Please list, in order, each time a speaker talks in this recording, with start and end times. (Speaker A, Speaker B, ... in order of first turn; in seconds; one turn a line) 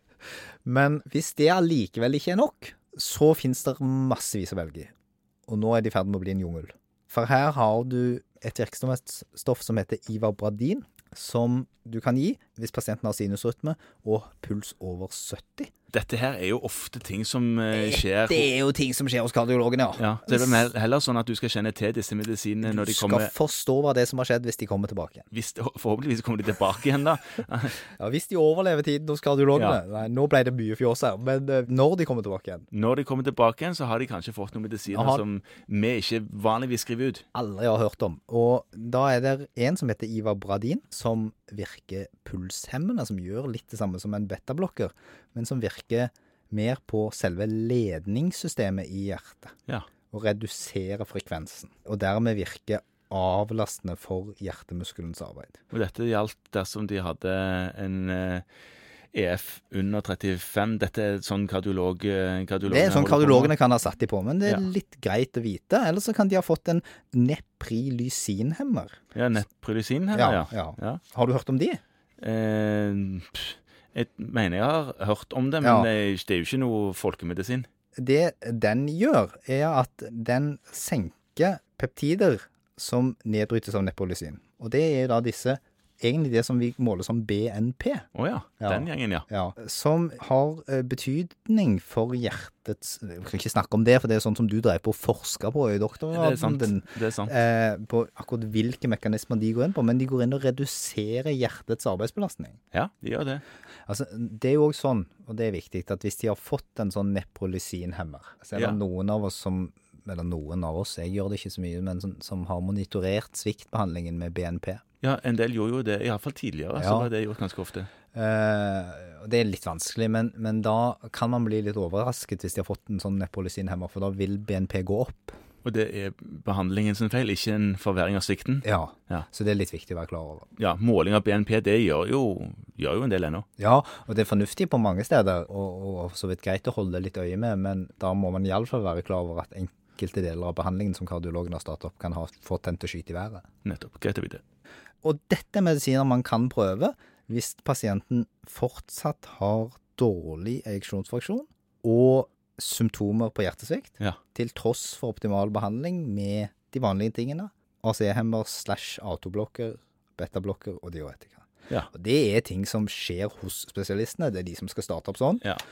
Speaker A: 0.6-4.9
Speaker A: 5.5-15.7
Speaker B: 15.9-18.5
Speaker A: 17.7-20.6
Speaker B: 20.0-23.3
Speaker A: 22.6-25.3
Speaker B: 25.3-27.8
Speaker A: 27.9-32.7
Speaker B: 29.5-29.8
Speaker B: 32.7-37.2
Speaker A: 34.9-35.2
Speaker A: 37.3-49.5
Speaker A: 50.1-55.6
Speaker B: 55.7-58.4
Speaker B: 59.1-63.5
Speaker A: 62.7-69.0
Speaker B: 69.1-71.0
Speaker A: 70.1-71.8
Speaker B: 72.2-77.7
Speaker A: 75.6-75.9
Speaker A: 78.0-88.1
Speaker B: 88.1-89.2
Speaker A: 88.6-102.6
Speaker B: 96.1-97.3
Speaker B: 102.7-103.4
Speaker A: 103.9-114.8
Speaker B: 115.0-117.9
Speaker A: 116.8-117.1
Speaker A: 118.1-125.3
Speaker B: 125.6-129.2
Speaker A: 128.6-130.5
Speaker B: 130.6-133.4
Speaker A: 133.6-143.4
Speaker B: 143.6-144.4
Speaker A: 145.0-165.4